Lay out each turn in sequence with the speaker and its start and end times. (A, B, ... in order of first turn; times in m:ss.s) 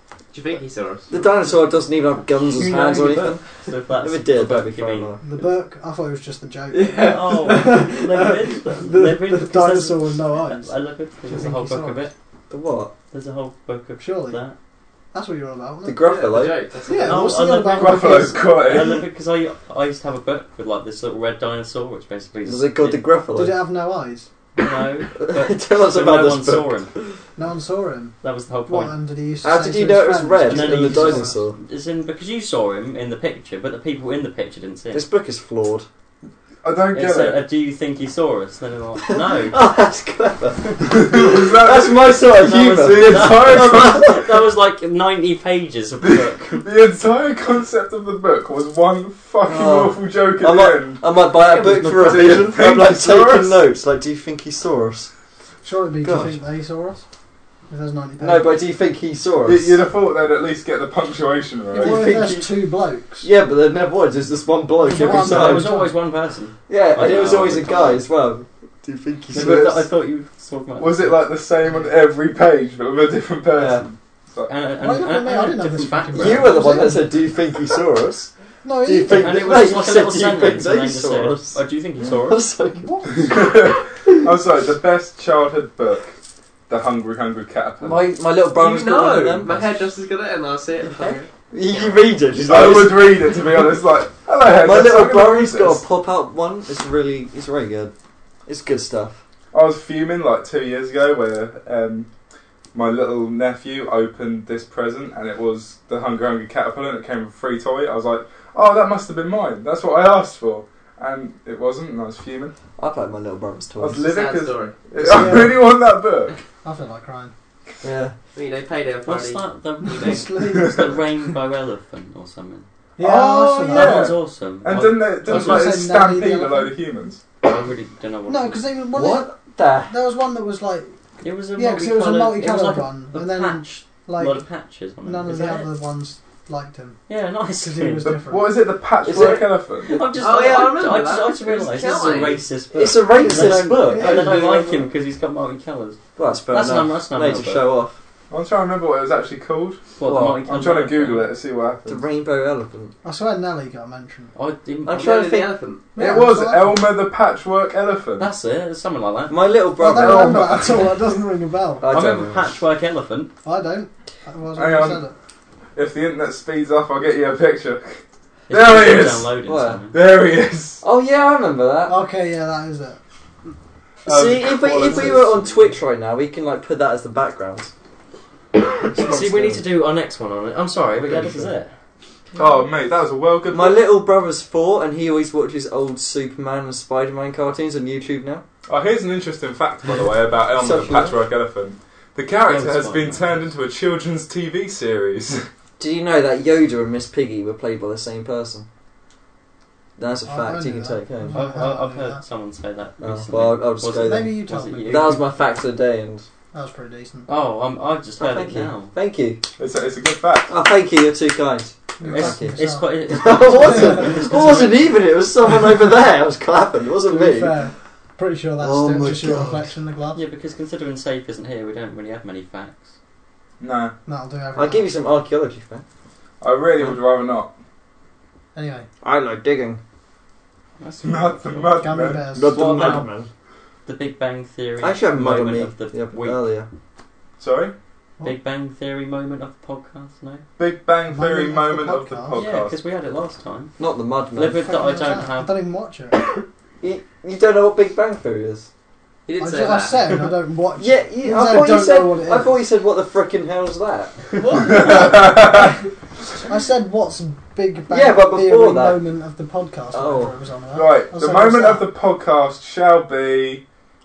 0:00.3-0:01.6 A
0:01.1-0:05.2 B
0:02.7-0:05.2 C
0:05.2-0:10.7 D
0:06.7-0:07.5 A
0:06.9-0:12.1 C
0:11.3-0:12.1 D
0:12.5-0:12.9 B
0:13.1-0:14.5 C
0:14.0-0:14.4 D
0:15.1-0:16.1 D
0:15.8-0:16.6 B
0:16.0-0:17.4 A
0:16.8-0:18.6 D
0:17.0-0:23.1 C
0:17.7-0:19.0 E
0:22.4-0:23.6 B
0:23.3-0:24.3 D
0:24.6-0:26.9 C
0:25.2-0:27.2 B
0:27.4-0:31.4 D
0:28.2-0:29.0 C
0:29.4-0:31.6 B
0:30.5-0:35.0 C
0:34.9-0:35.9 B
0:36.6-0:37.4 E
0:36.9-0:39.6 C
0:39.1-0:44.2 B
0:40.8-0:44.2 E
0:42.9-0:46.7 C
0:46.0-0:53.7 E
0:49.4-0:55.1 B
0:51.4-0:52.6 C
0:55.6-0:57.0 D
0:56.0-0:56.4 B
0:57.7-0:58.6 D
0:58.2-0:59.8 B
0:59.4-1:02.2 E
1:01.7-1:03.3 D
1:01.8-1:02.6 B
1:03.2-1:05.7 B
1:04.8-1:06.0 D
1:04.9-1:08.0 C
1:06.7-1:09.8 B
1:09.3-1:11.2 C
1:09.3-1:09.9 E
1:10.8-1:14.5 E
1:13.5-1:13.8 B
1:14.5-1:16.6 C
1:14.8-1:17.2 D
1:16.1-1:18.3 B
1:18.6-1:19.6 D
1:18.8-1:21.6 B
1:19.1-1:22.4 C
1:22.2-1:23.6 B
1:23.1-1:26.1 E
1:26.7-1:28.1 E
1:27.8-1:29.9 B
1:28.6-1:32.0 A
1:30.8-1:33.5 B
1:32.4-1:35.8 E
1:34.4-1:37.9 B
1:38.4-1:39.2 B
1:39.5-1:42.1 E
1:42.7-1:52.5 E
1:52.8-1:54.1 B
1:53.8-1:56.4 E
1:54.1-1:54.8 A
1:55.0-1:55.4 B
1:55.1-1:55.6 D
1:56.6-1:57.3 D
1:57.8-1:58.1 B
1:58.3-2:00.2 A
1:59.0-2:02.7 C
1:59.8-2:00.8 D
2:00.5-2:00.8 E
2:03.0-2:04.1 D
2:03.0-2:07.2 E
2:03.7-2:05.7 C
2:05.2-2:06.7 D
2:07.4-2:08.6 C
2:08.3-2:09.3 D
2:08.9-2:10.0 B
2:09.9-2:11.0 D
2:11.2-2:15.7 C
2:11.5-2:14.4 D
2:15.0-2:17.0 D
2:17.1-2:18.1 C
2:17.6-2:18.6 D
2:18.0-2:20.0 E
2:19.0-2:20.0 B
2:19.8-2:26.0 C
2:20.1-2:22.4 A
2:22.7-2:24.8 B
2:23.3-2:24.6 D
2:26.2-2:28.0 B
2:26.5-2:27.7 C
2:28.3-2:29.8 E
2:30.0-2:31.3 C
2:30.0-2:30.4 B
2:30.4-2:32.0 E
2:31.8-2:32.9 B
2:33.0-2:34.3 D
2:34.3-2:35.2 C
2:34.8-2:35.5 B
2:34.9-2:35.9 A
2:36.0-2:36.9 D
2:36.0-2:38.3 E
2:38.2-2:39.4 C
2:39.3-2:40.7 B
2:39.8-2:41.9 D
2:40.0-2:40.7 E
2:41.8-2:42.6 B
2:41.9-2:43.3 C
2:43.4-2:45.1 D
2:44.5-2:45.0 E
2:45.7-2:49.3 E
2:48.5-2:49.9 C
2:49.4-2:49.8 B
2:49.9-2:50.8 E
2:50.8-2:52.0 B
2:51.9-2:53.0 D
2:54.0-2:55.7 E
2:54.0-2:57.7 B
2:58.8-3:01.7 C
2:58.8-2:59.7 B
3:00.9-3:01.6 B
3:02.3-3:03.8 E
3:03.5-3:08.4 B
3:08.7-3:15.4 E
3:10.5-3:11.1 B
3:12.4-3:13.2 C
3:15.8-3:18.7 B
3:20.0-3:21.4 B
3:20.2-3:22.2 D
3:21.3-3:25.3 C
3:23.0-3:26.3 B
3:23.9-3:25.2 D
3:26.5-3:27.3 D
3:27.3-3:28.9 C
3:28.2-3:29.4 B
3:29.6-3:30.5 E
3:30.5-3:37.6 B
3:32.0-3:34.8 D
3:32.1-3:34.9 C
3:37.0-3:40.2 D
3:38.6-3:39.7 B
3:40.1-3:42.9 C
3:43.6-3:43.9 E
3:44.0-3:44.9 D
3:44.5-3:45.8 B
3:46.4-3:47.5 E
3:48.5-3:48.9 D
3:49.0-3:49.8 B
3:50.8-3:51.9 C
3:51.0-3:52.3 E
3:51.8-3:53.1 D
3:52.3-3:53.3 B
3:52.7-3:53.0 C
3:53.8-3:56.4 C
3:54.8-3:56.7 B
3:57.4-3:57.7 E
3:58.2-4:00.4 C
4:00.6-4:02.8 E
4:01.0-4:02.4 D
4:02.3-4:03.7 C
4:03.8-4:04.7 B
4:04.3-4:05.5 C
4:04.6-4:06.2 D
4:06.8-4:08.7 B
4:09.2-4:10.2 A
4:09.4-4:12.6 D
4:10.8-4:14.2 B
4:14.5-4:15.8 D
4:14.5-4:15.8 E
4:16.4-4:21.8 D
4:17.9-4:19.0 B
4:19.9-4:20.3 B
4:20.7-4:23.6 E